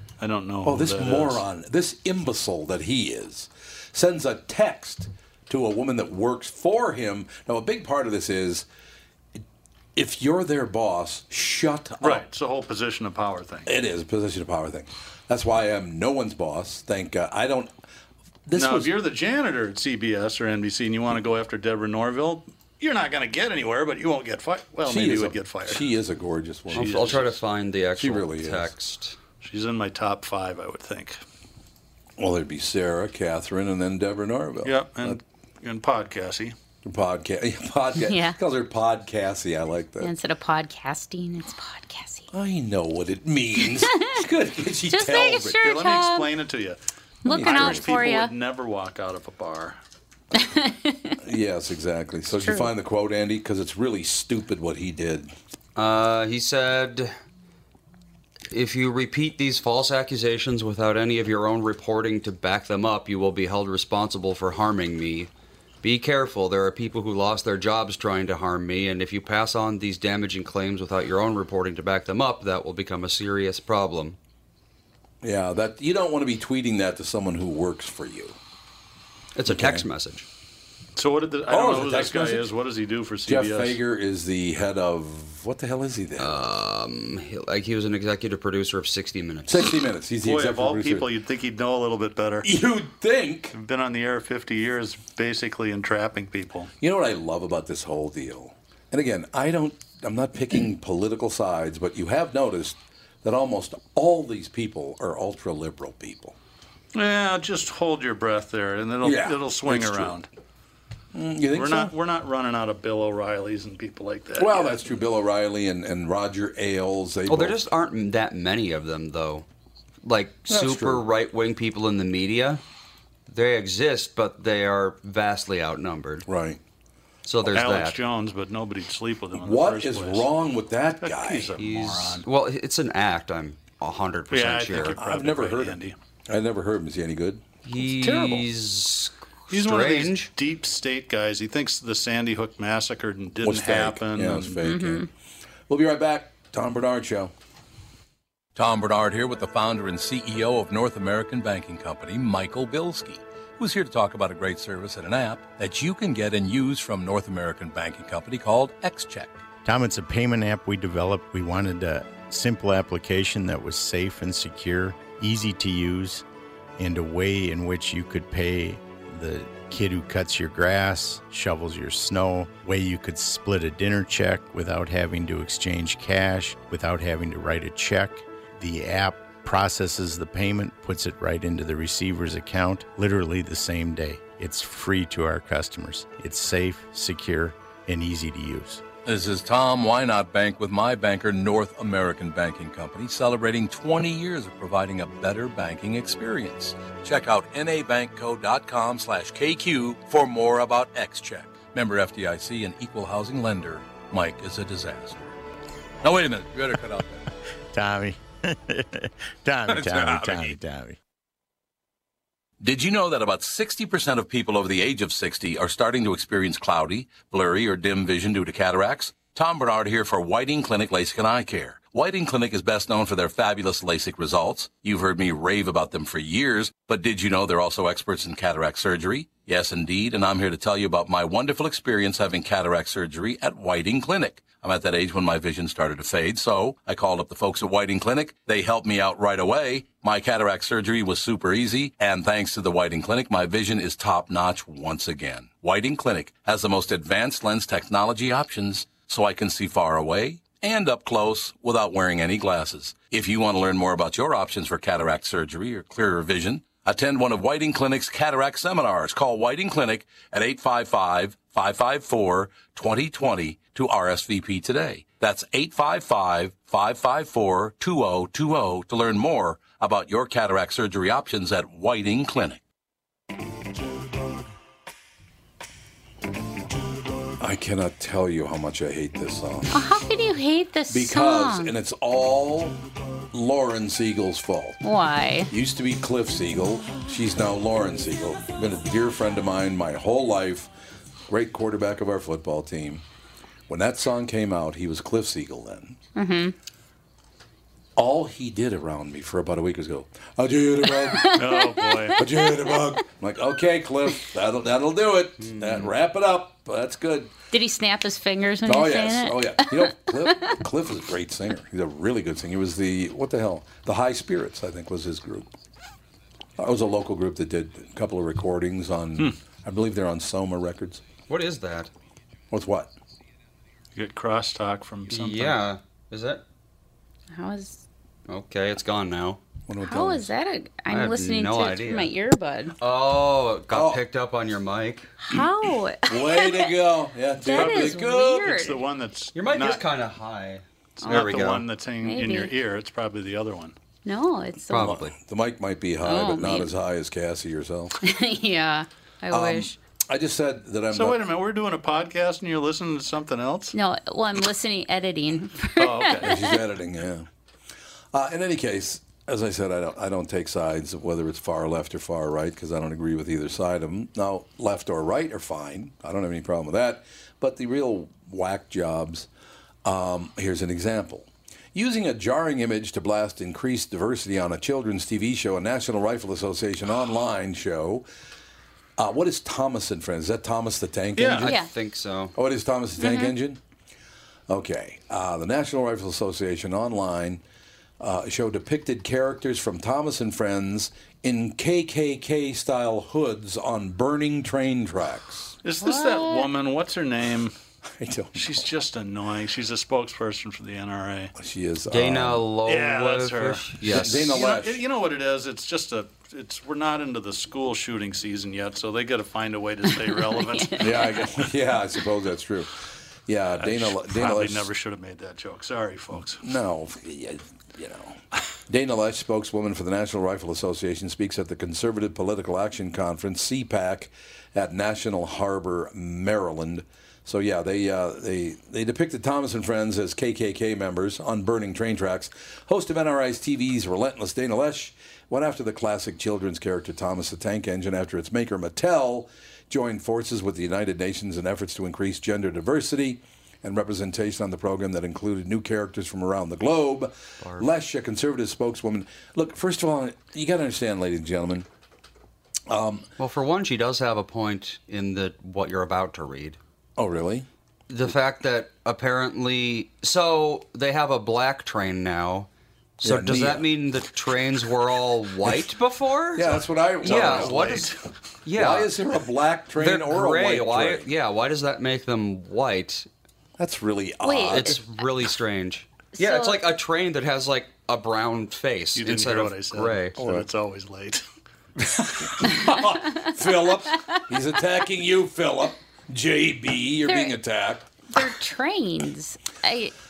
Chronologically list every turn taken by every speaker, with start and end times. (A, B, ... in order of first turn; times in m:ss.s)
0:00.2-0:01.4 A
0:00.6-0:08.6 B
0:09.9-0:12.2 B
0:12.0-0:13.7 A
0:13.6-0:17.7 B
0:18.4-0:18.9 B
0:18.5-0:25.9 A
0:24.8-0:27.4 B
0:26.7-0:29.2 C
0:26.7-0:27.3 A
0:28.0-0:28.7 B
0:29.4-0:31.2 A
0:32.2-0:35.2 B
0:34.6-0:36.5 A
0:36.8-0:40.1 B
0:38.0-0:38.4 D
0:40.0-0:42.3 D
0:42.3-0:45.6 B
0:43.7-0:44.2 D
0:44.9-0:46.3 D
0:45.6-0:46.8 A
0:47.2-0:48.3 D
0:47.3-0:48.1 B
0:47.3-0:49.8 A
0:50.3-0:51.2 D
0:51.2-0:55.3 B
0:52.4-0:52.7 D
0:55.8-0:57.1 C
0:58.5-1:05.3 C
1:05.8-1:14.2 C
1:15.2-1:18.4 B
1:19.3-1:20.2 C
1:19.4-1:19.9 B
1:21.0-1:23.8 A
1:21.5-1:22.5 B
1:23.2-1:26.4 B
1:26.2-1:29.7 C
1:29.4-1:31.1 B
1:30.2-1:32.5 A
1:32.4-1:33.5 B
1:33.5-1:36.7 A
1:36.8-1:46.4 B
1:46.9-1:50.3 A
1:49.0-1:50.2 B
1:51.1-1:51.9 B
1:51.5-1:54.8 A
1:54.4-1:57.6 B
1:57.3-1:59.4 C
2:00.0-2:02.6 C
2:00.5-2:01.0 B
2:03.3-2:06.2 C
2:06.3-2:06.6 B
2:07.2-2:08.0 C
2:07.5-2:10.3 A
2:09.3-2:11.5 B
2:11.0-2:12.2 A
2:11.6-2:15.0 C
2:14.3-2:16.0 A
2:15.0-2:18.4 B
2:17.6-2:20.3 C
2:19.5-2:24.6 A
2:23.4-2:25.1 B
2:24.6-2:25.1 D
2:25.7-2:27.3 B
2:28.6-2:39.4 B
2:39.6-2:46.2 E
2:46.8-3:08.8 E
3:09.0-3:25.3 B
3:26.0-3:27.3 B
3:27.7-3:31.0 E
3:29.6-3:30.6 B
3:32.6-4:32.6 B
4:37.4-4:39.9 B
4:39.7-4:41.7 D
4:40.9-4:42.8 B
4:43.3-4:44.8 B
4:44.8-4:45.5 D
4:45.5-4:50.7 B
4:51.3-4:53.0 B
4:53.7-4:56.0 B
4:56.1-4:56.5 D
4:58.0-5:01.4 B
5:00.9-5:02.2 D
5:01.3-5:02.2 A
5:02.1-5:07.3 B
5:05.4-5:05.9 C
5:07.5-5:10.6 D
5:08.6-5:15.5 B
5:16.6-5:21.0 B
5:21.3-5:21.9 C
5:22.5-5:22.9 B
5:23.9-5:25.6 A
5:25.1-5:26.4 C
5:27.3-5:27.8 D
5:28.3-5:29.4 C
5:29.7-5:30.3 B
5:29.8-5:32.8 D
5:30.9-5:32.1 C
5:32.8-5:35.1 C
5:33.7-5:34.0 B
5:35.2-5:36.7 D
5:36.1-5:38.5 B
5:37.4-5:38.8 D
5:37.4-5:39.8 A
5:39.3-5:41.7 C
5:41.0-5:43.7 A
5:41.0-5:41.3 D
5:42.0-5:42.5 D
5:44.0-5:45.0 D
5:44.7-5:45.1 C
5:44.8-5:48.0 B
5:46.0-5:46.7 D
5:48.0-5:49.8 D
5:49.3-5:51.2 B
5:50.9-5:53.8 A
5:53.7-5:56.6 D
5:55.8-5:56.4 A
5:56.2-5:57.3 B
5:58.1-6:09.3 B
6:09.8-6:18.0 B
6:19.0-6:21.6 B
6:21.2-6:21.5 A
6:21.5-6:22.3 C
6:22.3-6:23.6 B
6:23.0-6:23.3 D
6:24.5-6:27.4 B
6:28.0-6:35.6 B
6:35.6-6:37.5 A
6:35.8-6:36.5 D
6:37.9-6:38.6 B
6:38.3-6:41.3 A
6:41.4-6:42.4 B
6:41.9-6:44.4 C
6:42.6-6:51.1 A
6:43.8-6:44.8 B
6:50.2-6:51.2 D
6:50.8-6:54.7 B
6:53.6-6:56.4 A
6:56.4-7:31.7 B
7:27.4-7:27.7 C
7:32.7-7:33.1 B
7:33.2-7:36.6 C
7:37.0-7:37.5 B
7:37.9-7:42.5 C
7:43.0-7:47.9 C
7:43.0-7:43.7 B
7:46.3-7:47.8 B
7:47.0-7:48.0 A
7:48.4-7:48.9 C
7:48.5-7:51.1 B
7:49.8-7:53.1 C
7:53.6-7:54.8 B
7:54.2-7:54.8 D
7:54.5-8:00.2 C
7:56.1-7:56.6 D
7:58.9-8:01.2 A
8:00.2-8:00.4 B
8:01.8-8:07.9 B
8:02.5-8:03.3 D
8:07.0-8:07.4 D
8:08.1-8:09.9 D